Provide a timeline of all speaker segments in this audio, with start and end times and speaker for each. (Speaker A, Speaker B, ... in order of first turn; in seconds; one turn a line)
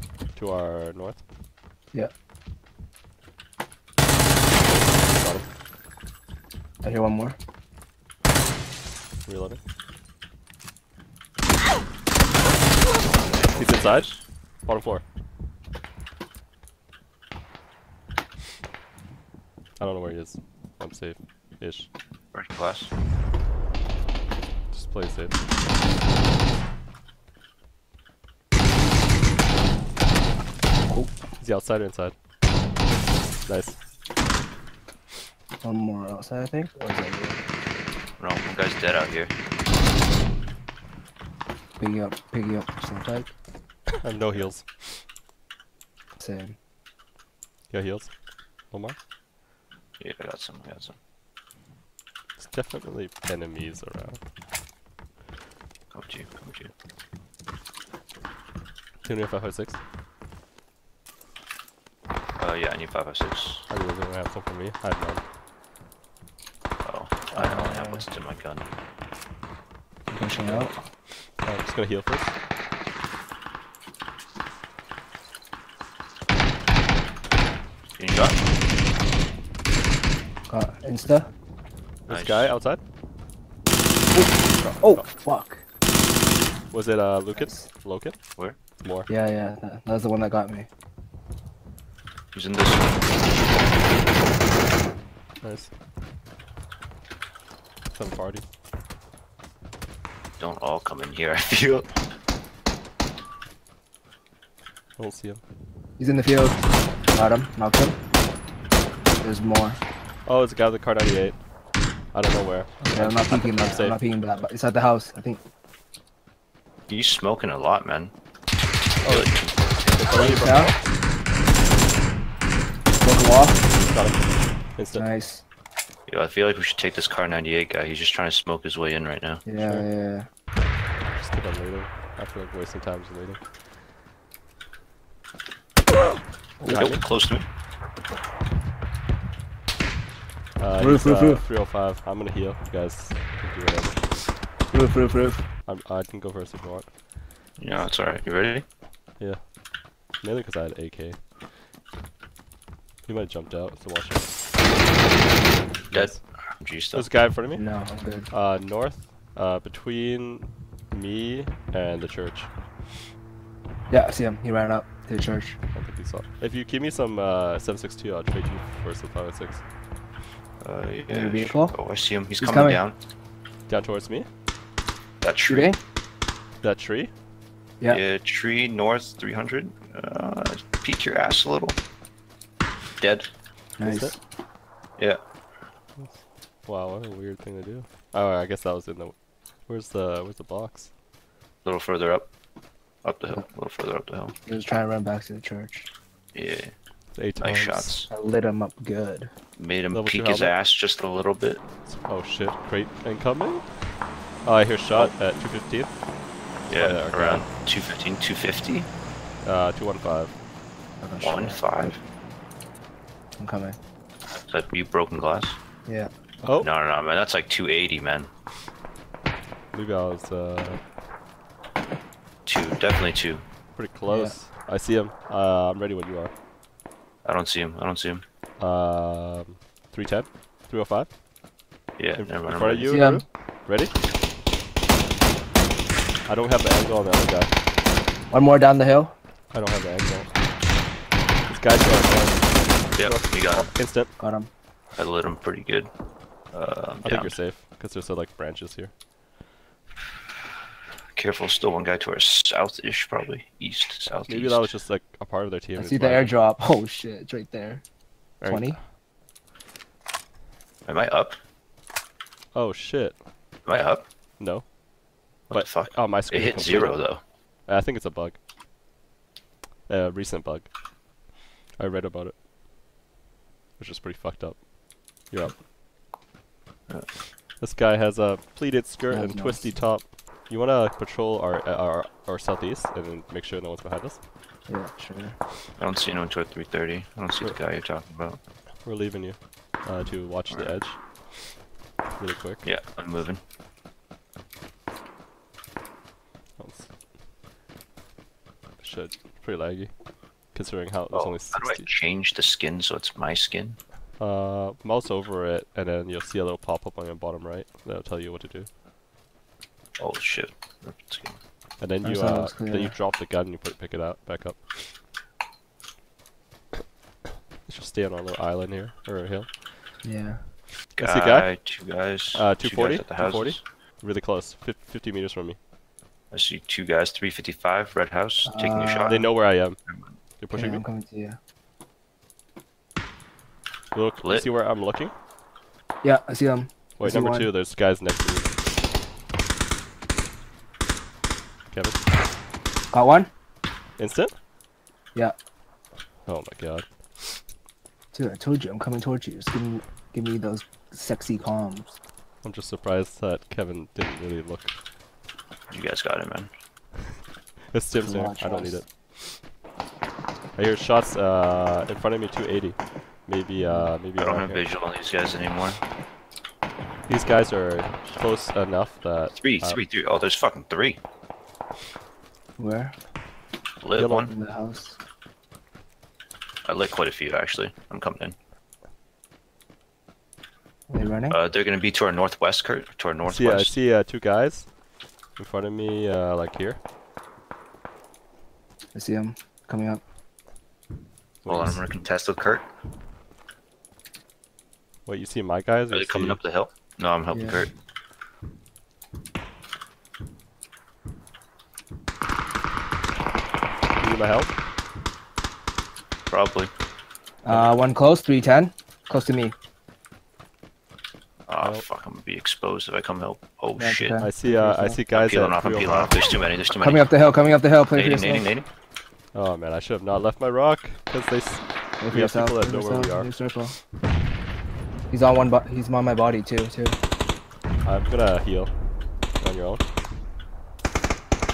Speaker A: 0.3-1.2
Speaker A: 4.7-5.5
Speaker B: 6.8-7.4
Speaker A: 9.2-9.6
Speaker C: 12.9-14.2
Speaker A: 13.5-14.1
Speaker A: 14.6-15.0
Speaker A: 19.8-21.9
Speaker C: 22.3-22.9
Speaker A: 24.7-25.4
Speaker B: 30.9-31.1
Speaker A: 31.4-32.1
Speaker A: 33.5-33.8
Speaker B: 35.6-37.4
Speaker C: 38.2-39.3
Speaker B: 41.8-43.3
Speaker A: 44.0-44.7
Speaker B: 46.2-46.5
Speaker A: 47.7-48.1
Speaker A: 48.7-49.0
Speaker C: 50.0-51.0
Speaker A: 52.4-54.2
Speaker C: 55.9-56.7
Speaker A: 59.0-59.8
Speaker C: 62.4-63.6
Speaker A: 63.7-65.2
Speaker C: 66.8-68.7
Speaker B: 67.3-68.0
Speaker B: 70.1-70.8
Speaker A: 70.4-70.7
Speaker A: 71.4-72.3
Speaker C: 78.0-78.4
Speaker B: 80.5-81.3
Speaker C: 82.1-82.5
Speaker A: 82.1-82.8
Speaker B: 84.1-85.6
Speaker A: 84.6-85.0
Speaker A: 86.7-88.2
Speaker B: 87.4-87.7
Speaker A: 88.8-89.1
Speaker B: 89.1-90.7
Speaker C: 92.3-93.0
Speaker A: 95.4-95.7
Speaker A: 97.9-98.4
Speaker C: 100.4-101.9
Speaker A: 105.0-105.4
Speaker B: 106.0-108.0
Speaker B: 109.2-109.8
Speaker A: 110.2-111.4
Speaker A: 112.1-114.1
Speaker B: 112.8-115.4
Speaker C: 116.9-118.1
Speaker C: 119.0-119.9
Speaker A: 119.0-120.8
Speaker B: 120.1-120.7
Speaker B: 123.0-123.7
Speaker A: 123.6-125.0
Speaker B: 124.9-125.4
Speaker C: 126.1-129.4
Speaker B: 129.4-130.3
Speaker A: 129.6-129.8
Speaker A: 131.1-133.4
Speaker A: 136.6-137.0
Speaker C: 136.7-137.4
Speaker A: 140.6-144.2
Speaker B: 140.8-141.4
Speaker B: 144.7-145.4
Speaker A: 145.7-146.9
Speaker C: 147.6-148.6
Speaker A: 149.2-149.5
Speaker A: 150.2-151.2
Speaker A: 153.1-154.4
Speaker A: 155.9-156.2
Speaker C: 155.9-157.1
Speaker A: 156.9-157.6
Speaker B: 157.5-158.3
Speaker A: 158.3-162.5
Speaker B: 163.9-165.6
Speaker A: 165.7-169.6
Speaker C: 170.6-173.0
Speaker B: 171.1-171.8
Speaker B: 172.4-172.8
Speaker A: 173.7-174.3
Speaker C: 175.2-175.7
Speaker B: 175.5-175.8
Speaker A: 176.6-177.1
Speaker C: 177.9-181.8
Speaker C: 183.0-183.3
Speaker B: 183.8-184.2
Speaker A: 183.8-184.1
Speaker A: 186.0-190.9
Speaker C: 191.6-192.3
Speaker C: 193.0-194.3
Speaker B: 194.4-195.9
Speaker C: 196.3-196.7
Speaker A: 197.1-198.0
Speaker C: 197.4-198.1
Speaker B: 198.1-199.3
Speaker C: 199.6-201.6
Speaker A: 199.9-200.5
Speaker A: 201.9-203.7
Speaker A: 204.4-206.0
Speaker C: 206.7-208.9
Speaker A: 206.7-207.5
Speaker A: 209.4-210.3
Speaker B: 211.0-211.6
Speaker C: 211.2-212.0
Speaker B: 213.4-213.8
Speaker C: 214.5-215.6
Speaker B: 215.8-216.1
Speaker A: 216.4-216.7
Speaker C: 216.6-218.3
Speaker A: 219.7-220.8
Speaker C: 222.4-223.4
Speaker A: 223.8-226.3
Speaker B: 224.1-224.3
Speaker C: 227.2-228.2
Speaker A: 228.6-231.1
Speaker C: 232.0-232.9
Speaker A: 232.2-233.9
Speaker B: 232.8-233.2
Speaker A: 236.2-237.5
Speaker B: 238.3-239.1
Speaker A: 239.5-240.3
Speaker A: 241.4-244.1
Speaker C: 242.9-243.7
Speaker B: 244.2-244.5
Speaker C: 244.9-245.9
Speaker C: 246.5-247.3
Speaker A: 247.0-248.9
Speaker C: 251.1-254.7
Speaker A: 254.3-256.3
Speaker B: 255.7-257.8
Speaker A: 258.4-258.8
Speaker B: 258.4-258.8
Speaker C: 260.9-261.4
Speaker A: 262.5-263.2
Speaker C: 263.6-264.0
Speaker A: 264.4-264.7
Speaker C: 265.5-267.2
Speaker A: 265.5-267.0
Speaker A: 267.6-268.4
Speaker A: 269.9-270.7
Speaker A: 271.8-272.4
Speaker A: 273.8-274.7
Speaker A: 275.2-275.6
Speaker A: 277.6-284.2
Speaker B: 279.1-279.7
Speaker B: 284.7-285.4
Speaker C: 285.8-288.4
Speaker A: 288.8-291.0
Speaker A: 292.2-292.6
Speaker C: 292.6-293.4
Speaker A: 296.6-296.9
Speaker A: 298.8-299.9
Speaker A: 300.5-301.9
Speaker C: 301.1-303.8
Speaker A: 304.2-308.7
Speaker C: 310.0-311.4
Speaker A: 311.8-314.6
Speaker B: 312.0-313.0
Speaker A: 317.6-319.7
Speaker B: 320.0-320.4
Speaker C: 320.9-323.6
Speaker A: 321.0-321.5
Speaker A: 322.3-325.6
Speaker C: 326.3-330.2
Speaker B: 328.4-329.3
Speaker A: 329.0-329.8
Speaker A: 330.4-330.8
Speaker B: 330.5-331.4
Speaker A: 333.9-335.1
Speaker C: 334.2-334.5
Speaker B: 336.0-337.5
Speaker A: 337.0-338.5
Speaker A: 341.7-342.0
Speaker B: 342.9-343.3
Speaker A: 344.0-344.3
Speaker A: 346.2-347.4
Speaker B: 348.1-352.0
Speaker A: 352.4-354.7
Speaker C: 355.7-356.5
Speaker A: 357.7-358.9
Speaker B: 357.9-358.8
Speaker A: 360.6-364.6
Speaker B: 363.6-363.9
Speaker C: 364.2-365.8
Speaker A: 367.1-369.8
Speaker C: 369.3-371.0
Speaker B: 372.6-372.9
Speaker C: 373.8-374.3
Speaker A: 373.9-374.2
Speaker B: 374.2-375.0
Speaker C: 376.6-378.4
Speaker B: 380.9-381.4
Speaker C: 381.3-383.8
Speaker A: 383.2-384.7
Speaker A: 385.4-386.8
Speaker B: 388.9-390.0
Speaker A: 391.4-391.8
Speaker C: 391.4-392.7
Speaker A: 395.1-396.4
Speaker C: 395.9-397.7
Speaker B: 397.3-397.7
Speaker A: 404.0-404.5
Speaker C: 406.3-406.7
Speaker B: 407.4-409.6
Speaker A: 407.5-407.8
Speaker C: 411.5-414.2
Speaker B: 413.8-415.0
Speaker A: 414.2-416.1
Speaker C: 415.1-417.1
Speaker B: 416.8-418.5
Speaker C: 417.9-418.7
Speaker A: 419.3-423.4
Speaker B: 422.0-423.8
Speaker B: 425.1-427.0
Speaker A: 427.8-428.7
Speaker A: 429.4-429.8